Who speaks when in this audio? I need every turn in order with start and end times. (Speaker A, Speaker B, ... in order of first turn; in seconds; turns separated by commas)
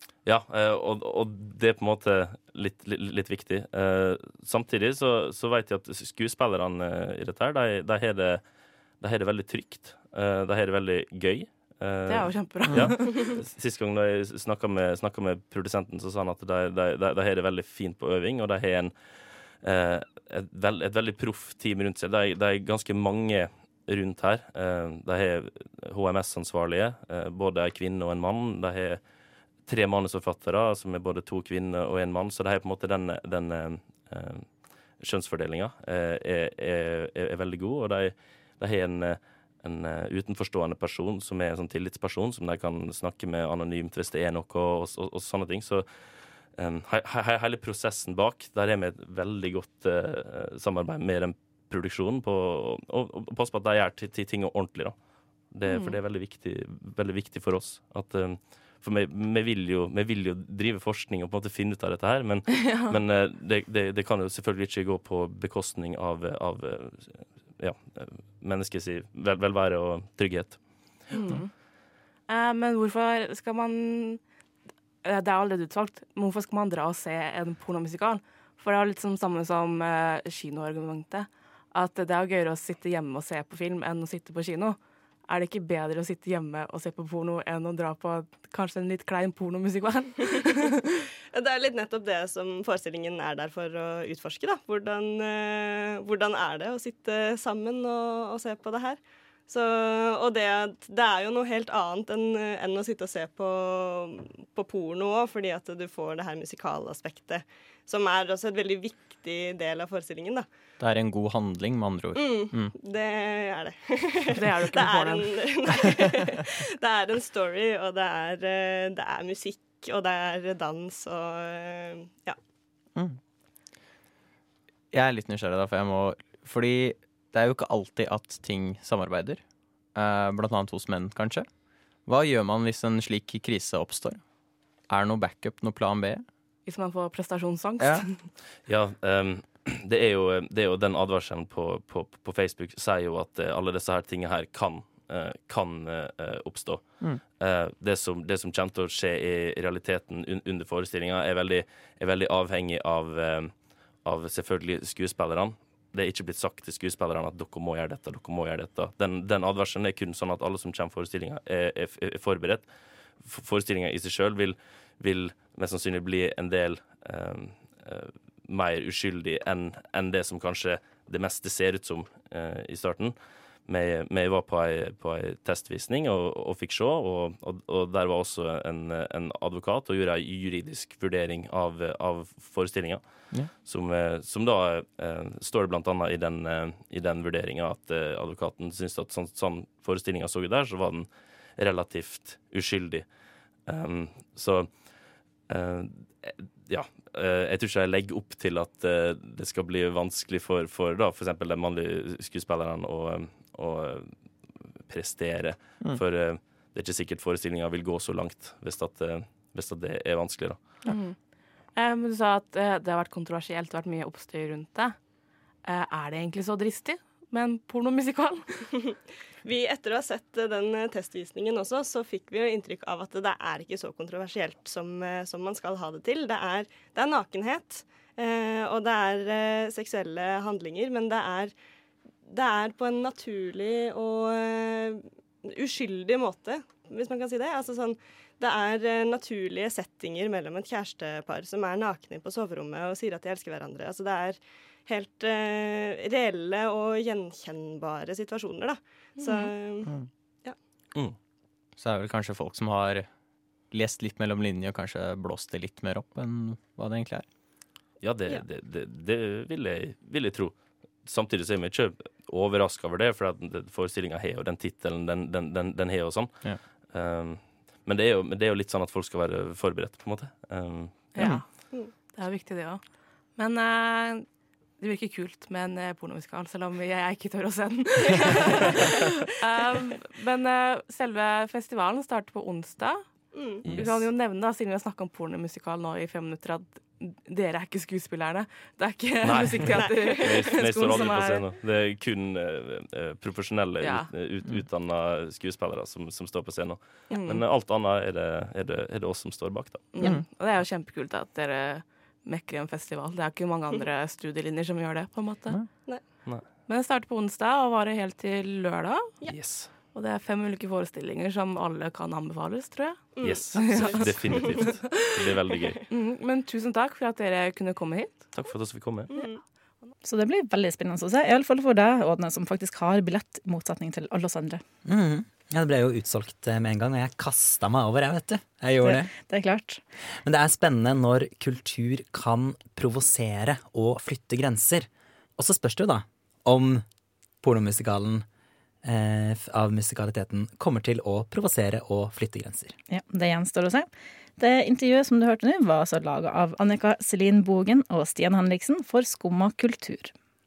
Speaker A: 0.2-8.4, Speaker A: 9.0-29.0, Speaker B: 12.1-13.3, Speaker A: 29.6-55.0, Speaker A: 55.5-70.6, Speaker B: 55.6-56.0, Speaker B: 62.5-62.9, Speaker B: 71.1-71.5, Speaker B: 72.3-74.2, Speaker B: 75.0-84.8, Speaker B: 85.3-91.0, Speaker C: 91.3-110.5, Speaker D: 110.8-112.7, Speaker C: 112.1-122.4, Speaker B: 114.3-115.3, Speaker D: 122.9-123.2, Speaker D: 124.9-131.5, Speaker D: 132.0-134.2, Speaker D: 134.9-136.2, Speaker B: 136.7-138.3, Speaker D: 137.8-138.1, Speaker A: 138.6-193.1, Speaker A: 193.6-194.7, Speaker A: 195.5-204.1, Speaker A: 204.9-210.7, Speaker B: 210.9-211.2, Speaker B: 211.7-214.9, Speaker B: 215.6-218.7, Speaker C: 219.4-231.5, Speaker C: 232.2-249.9, Speaker B: 249.2-249.5, Speaker D: 249.8-250.1, Speaker D: 251.8-253.1, Speaker D: 253.7-257.2, Speaker A: 258.0-271.2, Speaker B: 271.1-274.3, Speaker D: 271.2-271.5, Speaker B: 274.8-291.4, Speaker C: 283.3-283.7, Speaker A: 283.6-284.1, Speaker A: 289.2-299.9, Speaker C: 289.8-290.5, Speaker B: 293.8-294.1, Speaker B: 297.1-297.4, Speaker B: 299.9-305.6, Speaker D: 300.0-300.2, Speaker C: 305.8-306.2, Speaker A: 306.2-306.5, Speaker B: 306.6-309.3, Speaker A: 309.2-309.7, Speaker B: 309.9-315.2, Speaker C: 313.1-314.7, Speaker A: 313.2-315.8, Speaker B: 315.9-318.4, Speaker A: 318.3-319.1, Speaker C: 319.1-319.4, Speaker E: 320.0-324.6, Speaker F: 324.8-329.1, Speaker E: 328.8-329.8, Speaker F: 330.1-336.8, Speaker F: 337.4-338.2, Speaker F: 338.8-342.7, Speaker E: 342.9-350.1